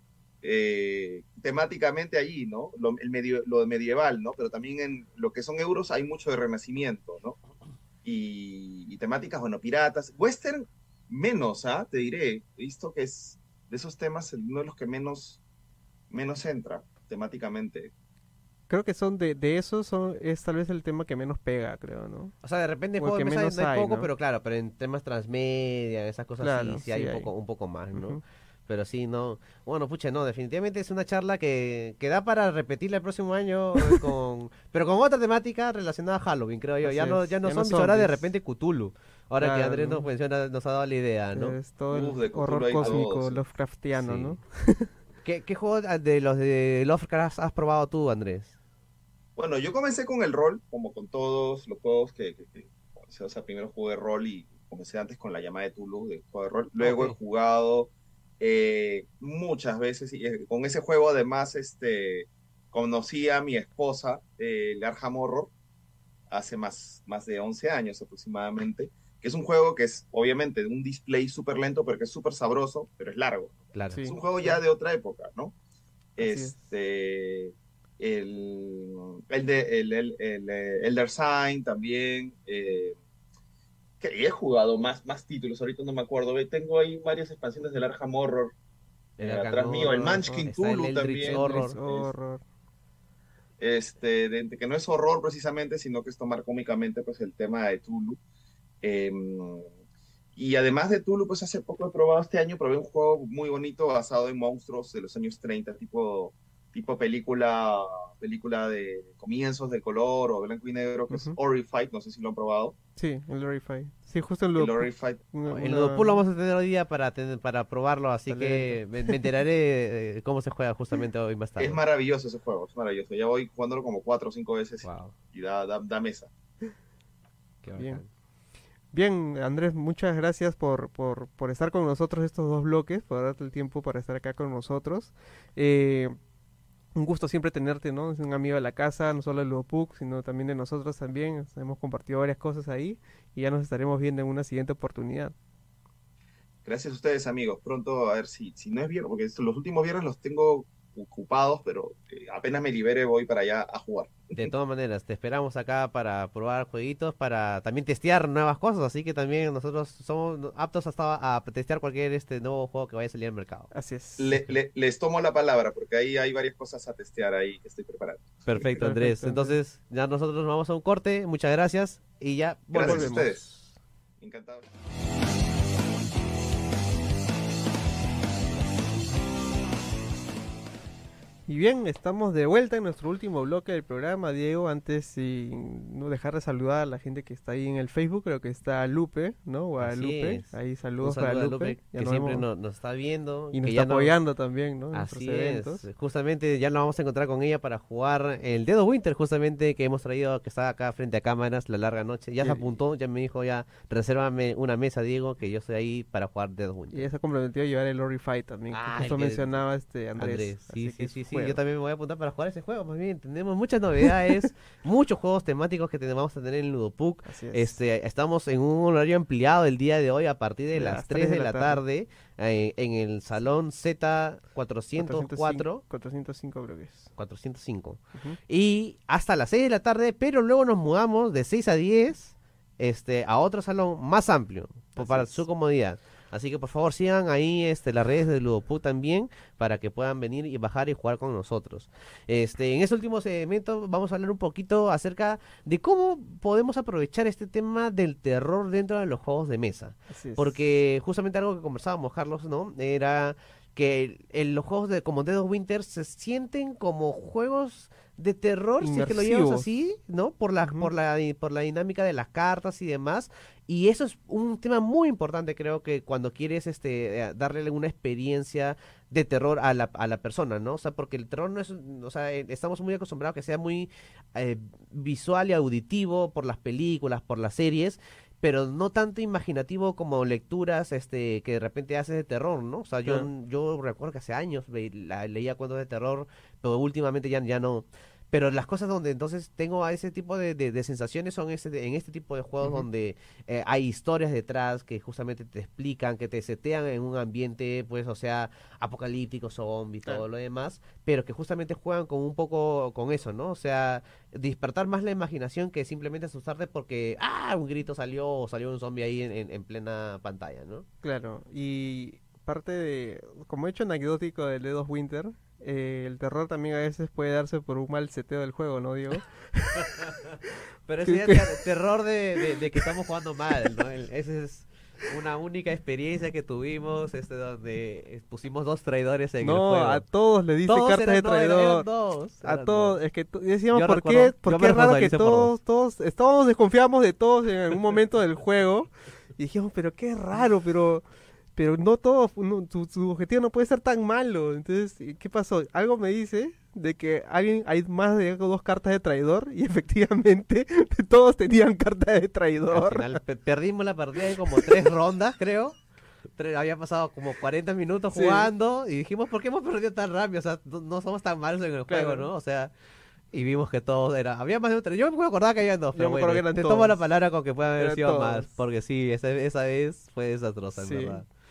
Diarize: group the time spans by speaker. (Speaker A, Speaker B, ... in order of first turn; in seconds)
Speaker A: 0.4-7.4, 8.0-15.4, 16.1-17.9, 41.9-43.4, 49.4-65.5, 66.3-75.5, 76.2-83.0, 84.0-88.5, 89.2-92.1, 93.6-98.2, 98.8-99.7, 100.3-112.7, 114.5-115.2, 121.6-126.3, 146.6-154.5, 164.2-168.6, 172.7-173.5, 174.2-174.7
Speaker B: 18.7-22.3, 23.0-24.1, 26.4-27.3, 27.9-28.2, 36.8-38.2, 39.4-40.1, 41.3-44.9, 73.9-74.6, 76.2-76.5, 89.8-90.4, 91.2-92.4, 111.1-111.4, 113.0-116.2, 118.3-119.2, 127.8-128.0, 128.9-136.1, 136.9-145.3, 163.7-164.4, 168.8-169.5, 172.8-173.4, 181.5-192.4, 193.5-195.8, 206.9-211.6, 217.2-217.7, 220.7-221.8, 225.0-227.1, 234.9-235.4, 250.1-250.6, 258.8-259.7, 260.6-260.9, 311.0-320.1, 321.0-321.5, 322.4-322.8, 329.4-331.9, 332.4-341.0, 341.6-353.2, 358.1-358.5, 361.9-362.3, 365.9-367.0, 367.8-368.5, 370.8-371.2
Speaker C: 22.4-41.5, 44.0-44.4, 45.2-48.5, 56.8-57.2, 73.7-74.0, 89.2-91.8, 115.5-121.8, 124.8-125.1, 127.6-128.1, 154.3-163.7, 168.5-173.3, 189.8-194.1, 194.9-207.1, 208.7-209.6, 210.2-225.8, 227.2-310.9, 319.8-320.3, 320.9-330.0, 330.6-333.0, 333.7-335.5, 352.7-355.8, 356.3-362.7, 363.3-371.3